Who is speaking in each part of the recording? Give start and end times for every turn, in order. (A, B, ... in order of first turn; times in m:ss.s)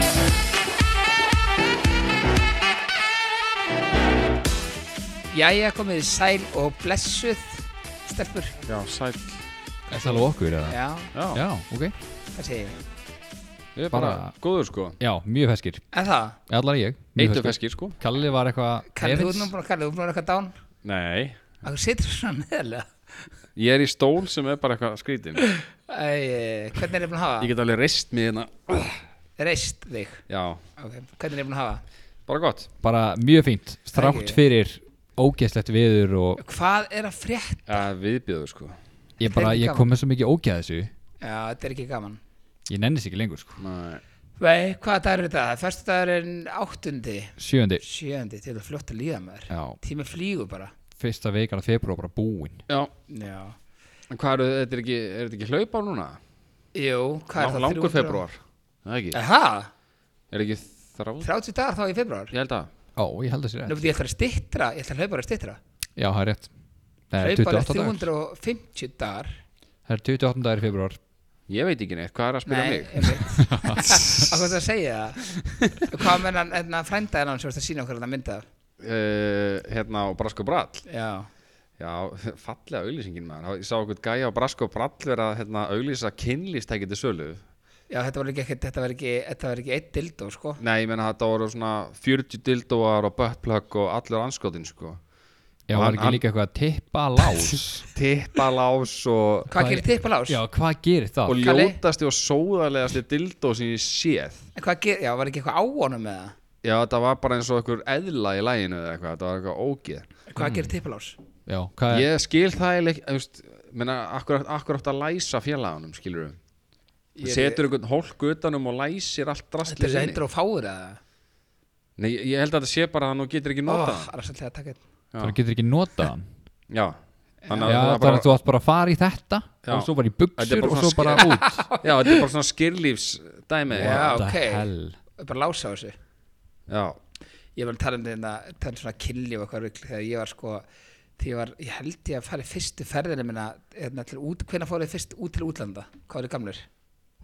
0:05.3-0:08.6 A
0:08.6-0:09.4 B
0:09.9-0:10.8 C
0:10.0-0:11.1 A
0:11.1-0:11.4 B
0:11.3-0:11.9 C
0:12.3-0:12.8 A
0:13.8-0:15.0 B
0:13.9-0:14.3 C
0:15.0-0:15.8 C
0:15.9-0:16.4 A
0:16.5-0:19.5 C
0:17.2-0:18.0 B
0:18.9-0:20.5 A
0:20.8-0:21.5 B
0:21.6-0:22.9 A
0:23.6-0:25.4 B
0:25.9-0:27.5 A
0:27.4-0:29.0 B
0:29.4-0:30.2 A
0:30.3-0:30.6 B
0:30.8-0:31.8 A
0:32.2-0:32.7 B
0:32.8-0:36.4 C
0:33.9-0:34.4 A
0:36.4-0:37.8 A
0:37.7-0:38.8 B
0:39.2-0:40.9 C
0:39.2-0:39.9 A
0:41.2-0:42.2 A
0:42.7-0:43.6 C
0:43.6-0:44.0 B
0:44.4-0:50.7 A
0:47.4-0:47.8 C
0:49.5-0:49.8 C
0:51.0-0:52.6 C
0:53.1-0:53.6 A
0:54.1-0:56.2 B
0:56.7-0:58.2 A
0:57.4-0:59.2 B
0:59.1-0:59.7 A
1:00.3-1:01.3 B
1:01.2-1:02.3 A
1:02.3-1:02.7 B
1:02.9-1:03.8 C
1:03.6-1:05.6 A
1:06.0-1:06.5 C
1:07.1-1:08.1 C
1:07.2-1:09.4 A
1:09.9-1:11.0 C
1:11.5-1:13.9 B
1:12.4-1:18.4 A
1:13.4-1:14.0 C
1:18.8-1:20.8 B
1:20.8-1:21.3 A
1:21.8-1:27.4 B
1:27.9-1:30.6 A
1:30.6-1:35.0 B
1:35.7-1:37.9 C
1:35.7-1:36.2 B
1:37.9-1:39.5 B
1:39.5-1:41.4 C
1:39.5-1:40.4 A
1:41.2-1:44.4 B
1:41.4-1:41.8 A
1:44.5-1:46.3 A
1:46.6-1:50.1 B
1:50.3-1:51.2 A
1:50.4-1:50.7 C
1:51.4-1:52.1 C
1:51.9-1:56.4 B
1:57.1-1:57.6 A
1:57.2-2:00.2 B
1:59.6-2:01.0 A
2:02.0-2:04.1 B
2:03.6-2:04.8 A
2:05.2-2:06.3 C
2:06.7-2:08.3 B
2:07.4-2:07.8 A
2:07.6-2:11.6 C
2:09.6-2:14.2 B
2:11.2-2:12.2 A
2:13.7-2:15.0 C
2:13.8-2:16.0 A
2:16.7-2:17.0 B
2:17.5-2:20.6 A
2:21.2-2:26.7 A